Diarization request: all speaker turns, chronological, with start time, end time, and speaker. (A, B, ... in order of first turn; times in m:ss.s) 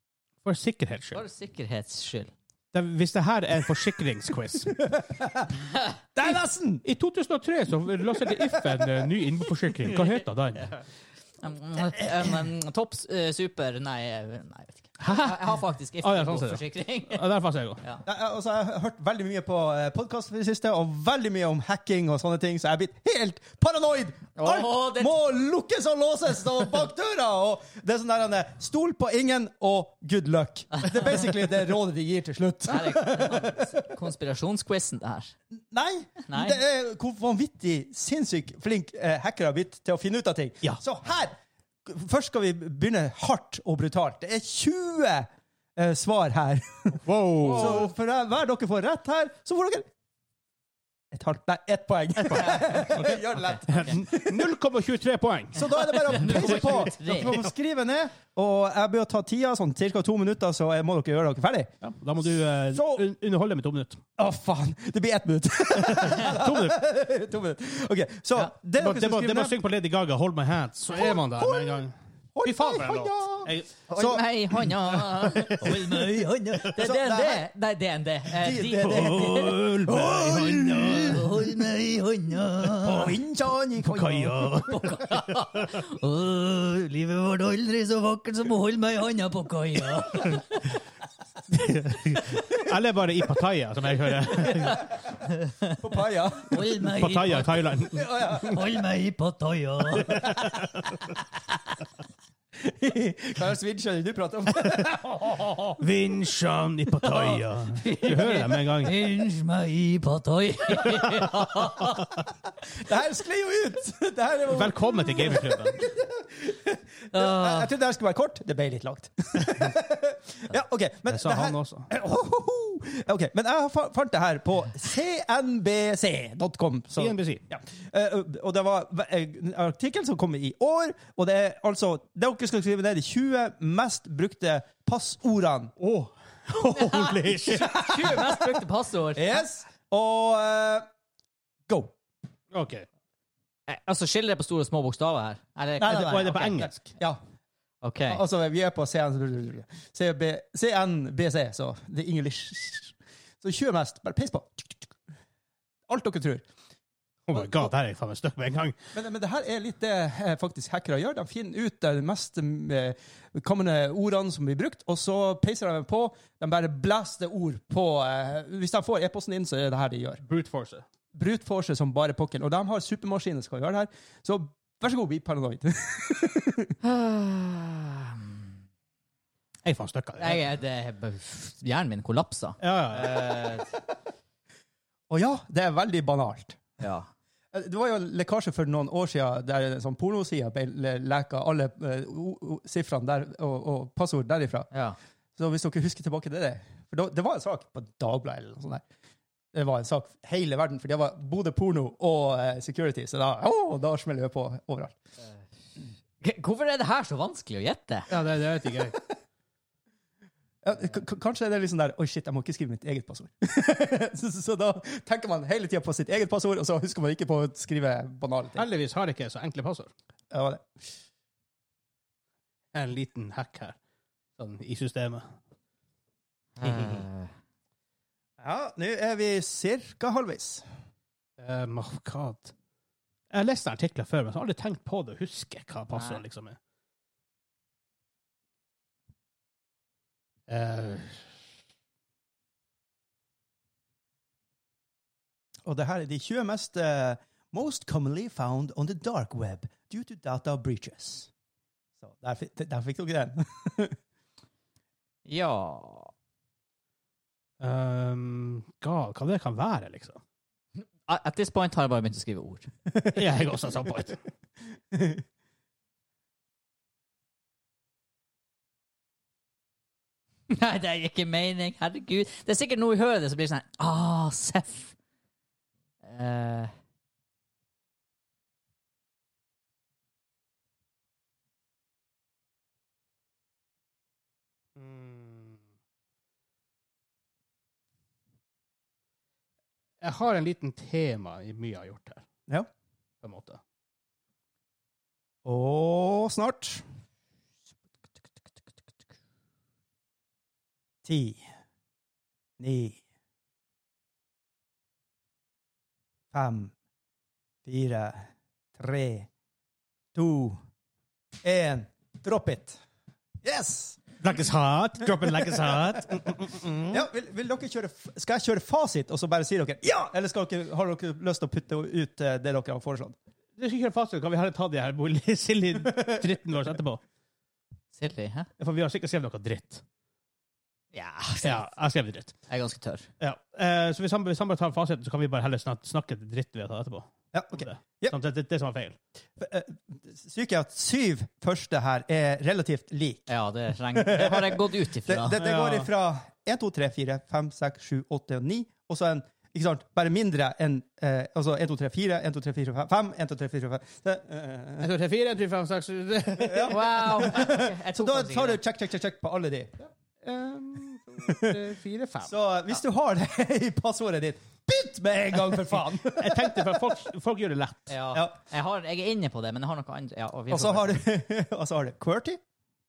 0:00.4-0:01.2 A
0:01.1-0:02.3 B
0:02.7-0:04.8 A
0:04.7-0:06.8 C
0:06.8-0:10.8 A
0:08.2-0:09.1 C
0:11.4-0:17.2 B
0:15.0-0:17.8 A
0:18.0-0:33.8 C
0:24.4-0:25.2 B
0:32.7-0:35.3 B
0:35.6-0:49.9 C
0:36.3-0:36.6 B
0:47.0-0:47.9 A
0:51.1-0:54.5 C
0:52.3-0:53.1 A
0:52.9-0:53.6 B
0:53.7-0:57.4 A
0:55.5-1:01.7 C
0:55.7-0:57.4 B
1:01.8-1:04.0 A
1:02.7-1:03.0 C
1:04.2-1:09.6 C
1:05.8-1:06.8 A
1:08.8-1:13.8 A
1:10.9-1:11.8 C
1:12.3-1:14.2 C
1:13.9-1:20.1 B
1:14.9-1:16.6 A
1:16.7-1:17.5 C
1:18.3-1:21.4 C
1:18.7-1:21.5 A
1:20.8-1:23.2 B
1:22.7-1:24.5 C
1:23.8-1:25.7 A
1:24.6-1:30.6 B
1:30.2-1:30.4 A
1:31.5-1:34.9 A
1:35.3-1:35.7 B
1:35.7-1:36.8 C
1:36.5-1:37.8 B
1:36.6-1:38.0 A
1:37.9-1:38.6 C
1:38.4-1:40.4 B
1:40.1-1:41.0 A
1:42.6-1:45.7 C
1:45.8-1:49.0 A
1:47.0-1:52.0 B
1:51.0-1:51.2 A
1:52.7-2:15.7 C
1:54.5-1:55.8 A
1:57.1-1:57.7 B
2:01.1-2:01.9 A
2:07.0-2:07.4 A
2:15.8-2:18.2 A
2:16.8-2:19.4 B
2:17.4-2:20.8 C
2:21.7-2:21.9 C
2:22.5-2:22.8 A
2:23.7-2:26.6 B
2:25.8-2:27.2 C
2:25.9-2:26.9 A
2:27.8-2:28.2 B
2:28.0-2:34.9 C
2:35.9-2:36.4 C
2:37.3-2:38.7 A
2:37.3-2:37.7 C
2:38.9-2:50.2 C
2:50.2-2:50.8 A
2:51.1-2:56.7 C
2:56.8-2:58.5 B
2:59.6-3:00.4 A
3:00.2-3:03.7 B
3:02.6-3:03.2 A
3:05.1-3:06.6 C
3:06.8-3:07.1 B
3:07.5-3:14.7 C
3:14.7-3:15.0 B
3:15.4-3:18.8 C
3:19.5-3:25.0 C
3:26.2-3:28.1 B
3:28.1-3:29.0 A
3:30.6-3:38.7 C
3:38.5-3:39.9 A
3:40.3-3:40.8 C
3:42.7-3:43.8 A
3:44.4-3:45.3 A
3:46.6-3:47.3 B
3:46.6-3:47.0 A
3:48.4-3:50.7 C
3:51.4-3:52.5 A
3:53.3-3:56.6 A
3:55.9-3:56.2 B
4:00.5-4:01.2 A
4:05.6-4:11.3 C
4:12.0-4:13.9 C
4:15.2-4:16.1 B
4:17.6-4:20.2 A
4:21.1-4:22.7 B
4:23.1-4:24.2 A
4:24.9-4:25.2 C
4:30.5-4:34.9 B
4:36.0-4:36.7 B
4:44.8-4:45.6 A
4:50.0-4:52.2 A
4:53.2-4:53.6 A
4:55.4-4:56.8 C
5:01.0-5:01.4 C
5:02.6-5:03.0 C
5:06.3-5:06.7 C
5:07.6-5:09.3 C
5:10.1-5:10.6 C
5:11.4-5:12.8 C
5:13.4-5:14.0 C
5:14.2-5:17.0 A
5:15.3-5:15.7 C
5:16.9-5:23.2 C
5:23.6-5:27.0 A
5:25.8-5:26.4 C
5:27.9-5:28.5 B
5:28.6-5:29.8 A
5:30.9-5:31.8 B
5:31.4-5:32.4 A
5:32.5-5:33.1 B
5:33.2-5:39.0 A
5:37.3-5:38.2 C
5:39.4-5:43.3 C
5:43.3-5:45.4 B
5:43.9-5:54.9 C
5:45.4-5:45.9 A
5:54.8-5:57.4 A
5:56.4-5:59.7 C
5:56.7-5:58.6 B
6:00.2-6:02.4 A
6:01.2-6:01.6 C
6:02.2-6:07.0 C
6:05.5-6:07.9 A
6:07.9-6:11.0 B
6:08.1-6:08.4 C
6:10.5-6:12.4 C